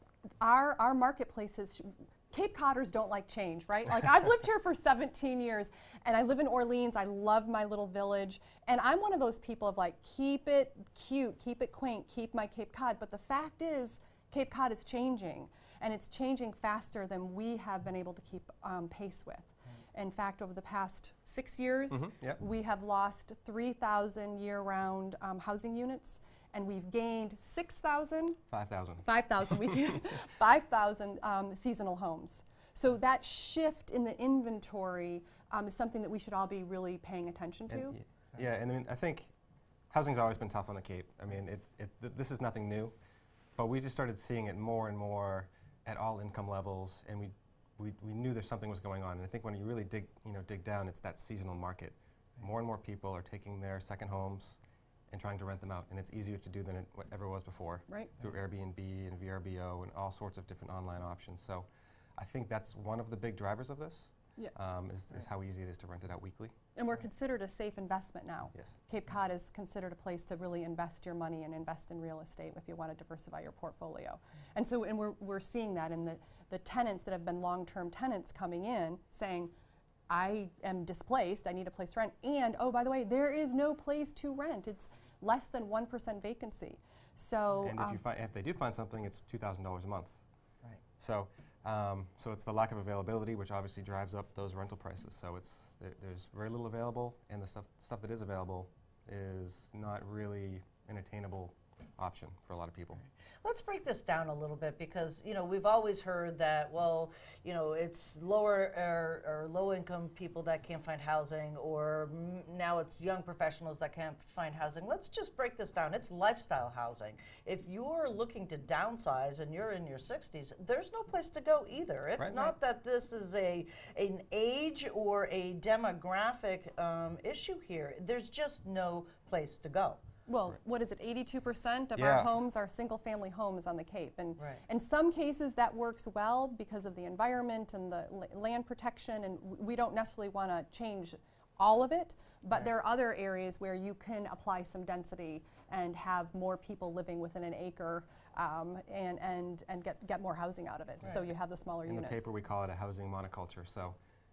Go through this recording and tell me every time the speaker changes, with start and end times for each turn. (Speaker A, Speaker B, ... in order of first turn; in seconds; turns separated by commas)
Speaker A: 0.4-28.4, Speaker B: 21.9-22.4, Speaker B: 28.5-29.8, Speaker A: 29.0-38.0, Speaker B: 37.7-39.3, Speaker B: 39.9-42.9, Speaker B: 43.6-54.6, Speaker B: 55.1-66.5, Speaker A: 57.9-58.1, Speaker A: 66.7-79.5, Speaker A: 80.1-88.0, Speaker B: 87.6-90.2, Speaker B: 91.0-103.0, Speaker C: 103.4-130.0, Speaker A: 130.3-152.3, Speaker B: 132.0-132.3, Speaker C: 134.4-134.6, Speaker B: 151.9-154.0